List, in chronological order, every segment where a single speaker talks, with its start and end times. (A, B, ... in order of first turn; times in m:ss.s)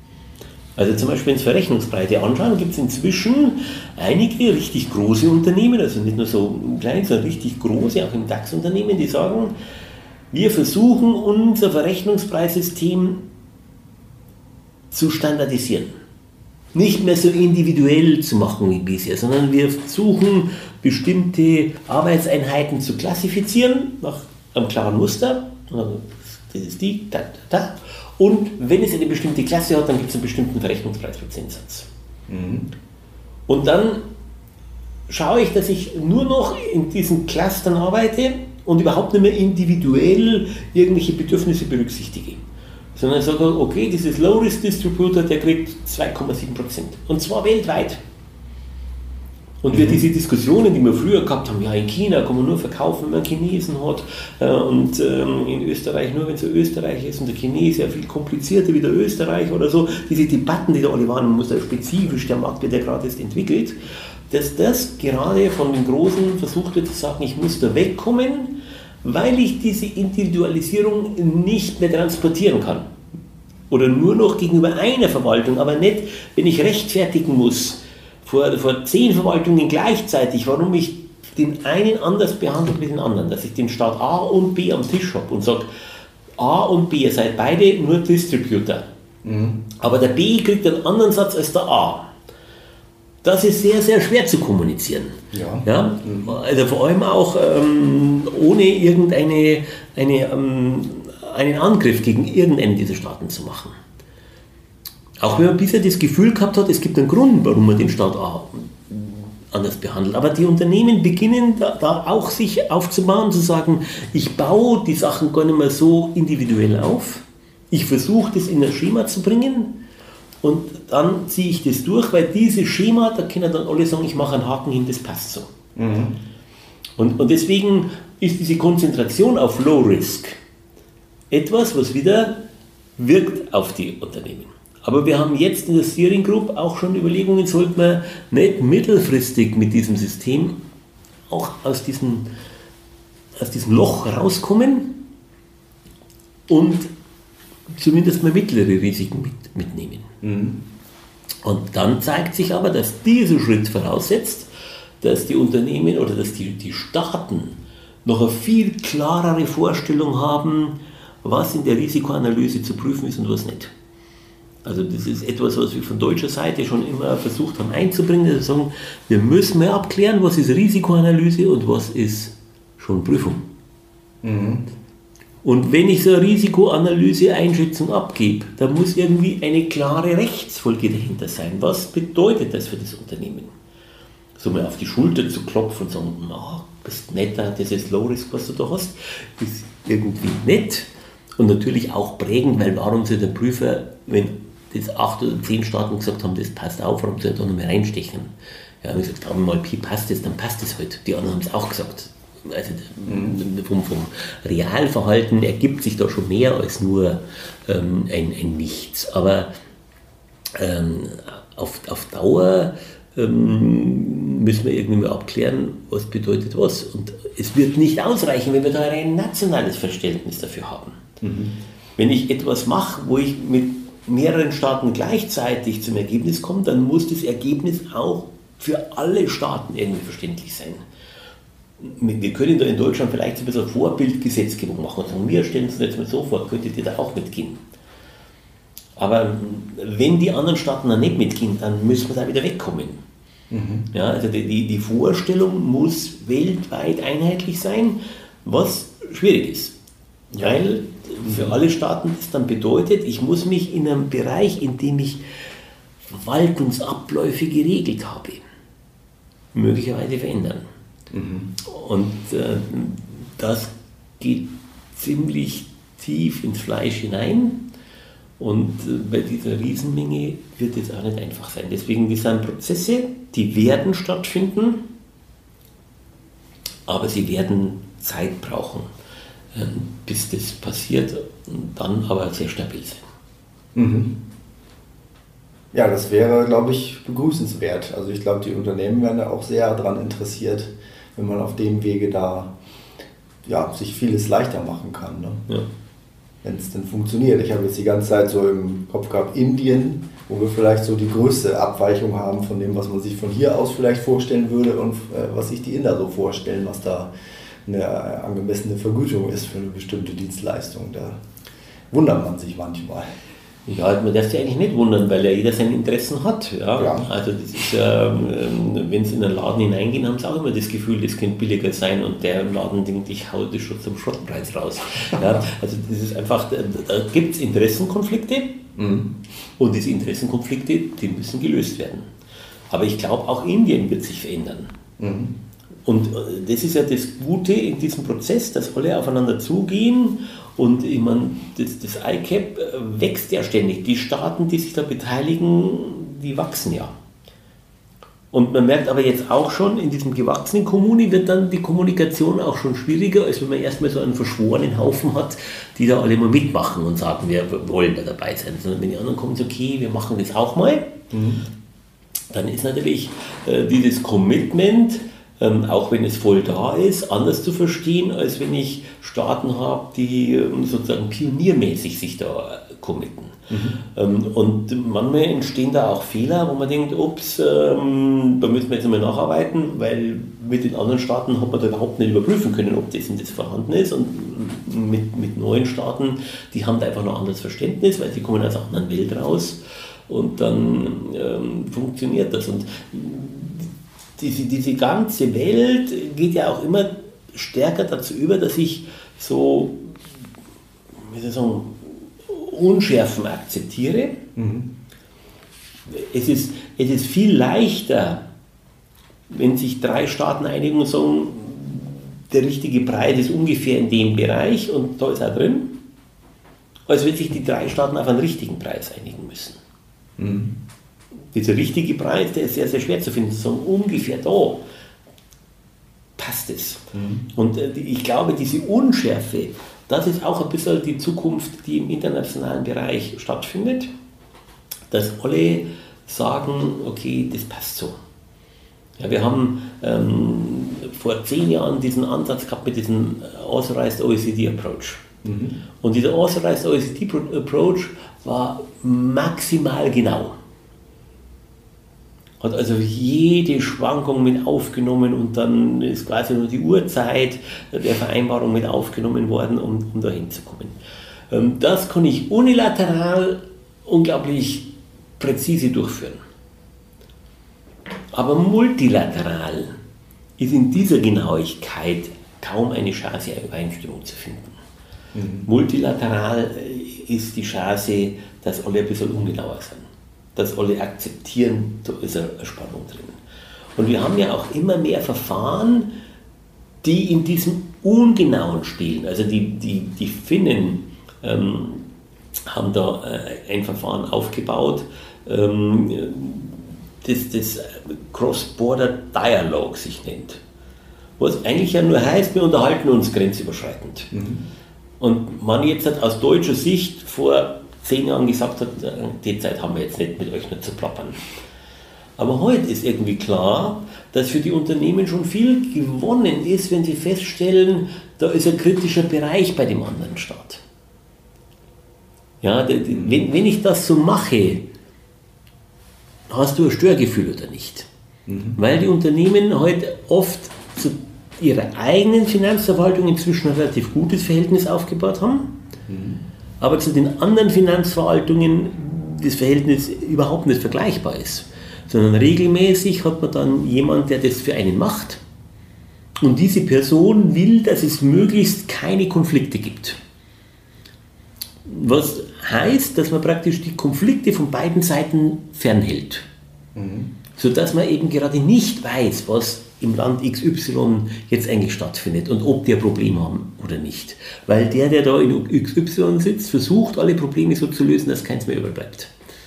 0:00.8-0:09.5 A
0:10.3-0:13.2 A
0:14.9-0:15.9 A
0:16.7-0:31.9 A
0:32.3-0:32.7 B
0:33.5-0:34.0 A
0:35.1-0:42.4 A
0:43.0-0:48.0 A
0:49.6-1:03.8 A
0:49.7-0:50.0 B
1:04.3-1:12.9 A
1:13.7-1:25.7 A
1:26.4-1:28.9 A
1:29.2-1:29.6 B
1:29.8-1:32.1 A
1:33.2-1:43.7 A
1:35.3-1:36.4 B
1:45.2-1:59.8 A
2:00.4-2:05.5 A
2:05.8-2:06.2 B
2:07.0-2:10.4 A
2:11.3-2:12.4 A
2:13.0-2:20.6 A
2:21.3-2:22.3 A
2:23.4-2:25.0 A
2:26.5-2:26.9 A
2:27.7-2:30.1 A
2:30.2-2:30.6 B
2:31.4-2:34.5 A
2:35.0-2:43.7 A
2:44.6-2:53.4 A
2:54.2-2:54.6 B
2:55.4-3:03.5 A
3:04.4-3:18.3 A
3:18.8-3:29.5 A
3:23.1-3:23.4 B
3:30.5-3:41.0 A
3:41.2-3:41.5 B
3:42.0-3:50.8 A
3:51.8-3:57.6 A
3:59.0-4:03.0 A
4:03.5-4:03.9 B
4:03.9-4:09.7 A
4:10.3-4:10.6 B
4:10.4-4:15.2 A
4:11.2-4:11.5 B
4:16.1-4:18.4 A
4:19.5-4:20.6 A
4:21.1-4:21.5 B
4:21.6-4:27.6 A
4:28.4-4:34.8 A
4:36.9-4:38.9 A
4:39.5-4:43.0 A
4:43.7-4:44.2 B
4:45.7-4:52.5 B
4:53.4-4:55.4 B
4:56.4-5:07.1 B
5:07.6-5:11.2 B
5:11.9-5:13.0 B
5:13.7-5:28.6 A
5:16.8-5:17.1 B
5:25.1-5:25.4 B
5:28.8-5:29.1 B
5:29.6-5:32.0 A
5:32.7-5:34.7 A
5:35.0-5:35.3 B
5:35.8-5:47.0 A
5:48.3-6:00.9 A
6:01.1-6:01.4 B
6:02.3-6:40.0 A
6:13.5-6:13.8 B
6:41.0-6:44.2 A
6:44.4-6:44.7 B
6:45.9-6:48.2 A
6:49.3-6:55.7 A
6:56.9-6:59.6 A
7:00.2-7:00.5 B
7:01.3-7:04.6 A
7:06.2-7:13.9 A
7:06.9-7:07.2 B
7:14.9-7:17.9 A
7:19.0-7:25.0 A
7:25.2-7:25.6 B
7:25.8-7:30.4 A
7:32.4-7:40.8 A
7:41.3-7:44.7 A
7:45.2-7:46.2 A
7:48.1-7:49.8 A
7:50.4-7:54.6 A
7:55.1-7:55.5 B
7:55.4-8:03.2 A
8:03.8-8:05.9 A
8:06.8-8:11.8 A
8:12.5-8:20.4 A
8:21.2-8:24.1 A
8:24.1-8:24.4 B
8:25.0-8:31.2 A
8:32.2-8:40.6 A
8:42.4-8:44.6 A
8:46.3-8:47.9 A
8:48.3-8:48.6 B
8:48.6-8:55.5 A
8:55.9-8:56.2 B
8:56.6-9:05.2 A
9:06.2-9:10.0 A
9:11.6-9:16.2 A
9:16.7-9:17.1 B
9:17.4-9:29.1 A